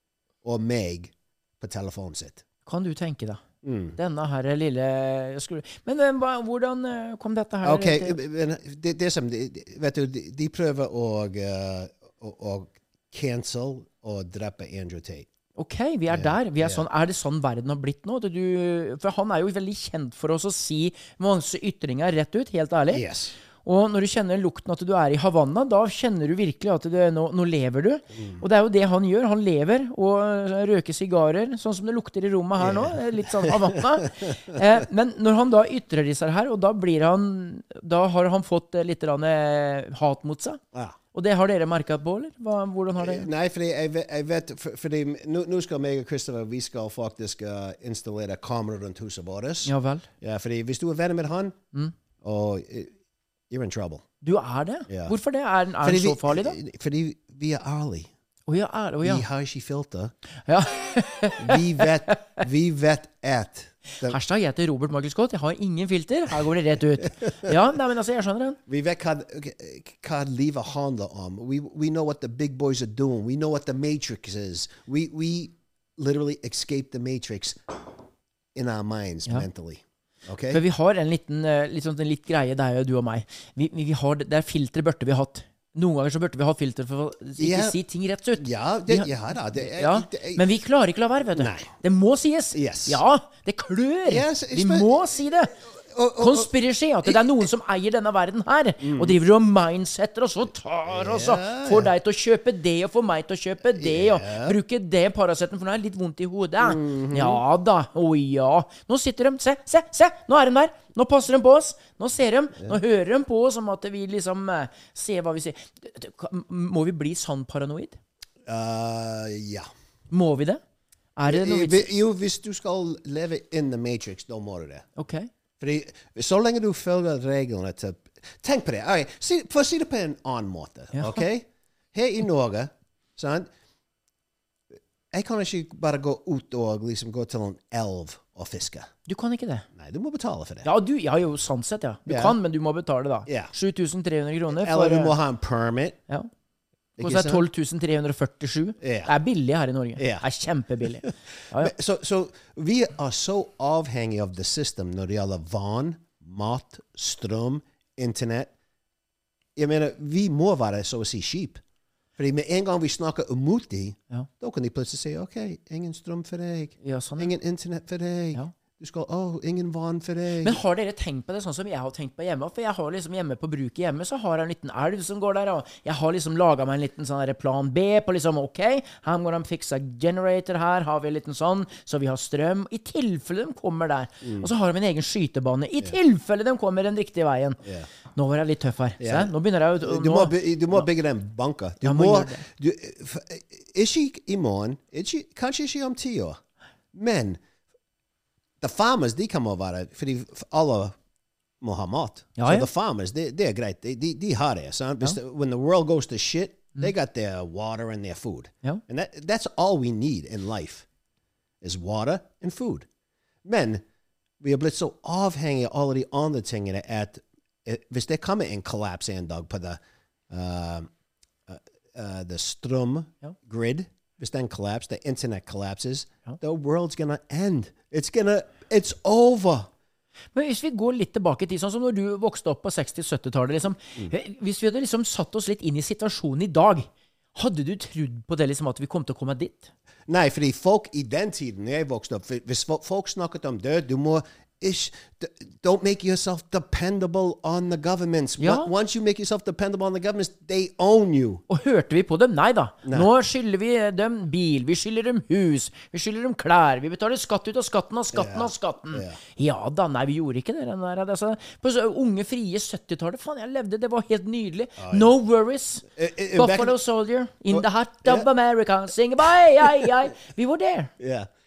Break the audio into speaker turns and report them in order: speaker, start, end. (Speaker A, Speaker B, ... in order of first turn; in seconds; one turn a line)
Speaker A: 0.4-2.4
Speaker B: 2.7-3.4
Speaker A: 3.6-4.0
Speaker B: 4.0-8.2
Speaker A: 7.6-15.3
Speaker B: 15.6-23.0
Speaker A: 16.1-16.9
Speaker A: 22.9-23.4
Speaker B: 23.6-40.6
Speaker A: 28.1-28.4
Speaker A: 32.6-34.6
Speaker B: 41.1-43.3
Speaker A: 43.0-51.6
Speaker B: 49.6-50.1
Speaker A: 52.2-52.9
Speaker A: 53.5-54.0
Speaker B: 54.2-56.5
Speaker A: 54.9-55.1
Speaker A: 55.8-58.1
Speaker B: 58.5-59.2
Speaker A: 59.0-60.1
Speaker B: 60.5-62.1
Speaker A: 61.4-64.2
Speaker B: 64.0-68.6
Speaker A: 68.7-77.7
Speaker A: 78.5-80.6
Speaker B: 80.5-95.5
Speaker A: 87.4-87.8
Speaker A: 88.3-90.4
Speaker A: 91.4-91.7
Speaker A: 92.5-93.0
Speaker A: 94.0-95.2
Speaker A: 95.9-96.5
Speaker B: 96.2-118.0
Speaker A: 98.8-99.2
Speaker A: 100.9-101.9
Speaker A: 103.7-104.6
Speaker A: 106.6-107.4
Speaker A: 118.5-119.7
Speaker B: 120.1-120.6
Speaker B: 121.2-121.9
Speaker A: 121.3-124.9
Speaker B: 125.0-125.3
Speaker A: 125.6-133.5
Speaker B: 130.9-131.2
Speaker A: 135.1-138.9
Speaker B: 139.1-139.7
Speaker A: 139.8-140.7
Speaker B: 140.6-145.2
Speaker A: 142.1-142.4
Speaker A: 143.3-143.5
Speaker A: 144.5-146.0
Speaker A: 147.0-147.4
Speaker B: 147.0-151.7
Speaker A: 148.8-149.1
Speaker A: 150.0-150.2
Speaker A: 151.0-158.5
Speaker A: 159.6-161.6
Speaker A: 162.2-170.6
Speaker B: 166.8-167.3
Speaker B: 170.4-187.6
Speaker A: 184.2-184.5
Speaker A: 187.6-187.9
Speaker B: 188.2-190.9
Speaker A: 189.0-196.4
Speaker B: 191.8-192.5
Speaker A: 196.9-197.4
Speaker A: 198.6-201.0
Speaker A: 201.6-210.9
Speaker B: 202.4-202.7
Speaker A: 211.6-212.9
Speaker A: 213.4-213.8
Speaker A: 214.4-220.9
Speaker A: 221.5-229.7
Speaker B: 230.3-239.7
Speaker A: 240.1-251.4
Speaker B: 248.4-248.7
Speaker B: 251.5-270.9
Speaker A: 258.1-259.2
Speaker A: 264.8-265.1
Speaker A: 265.9-266.8
Speaker A: 267.5-268.3
Speaker A: 271.0-271.3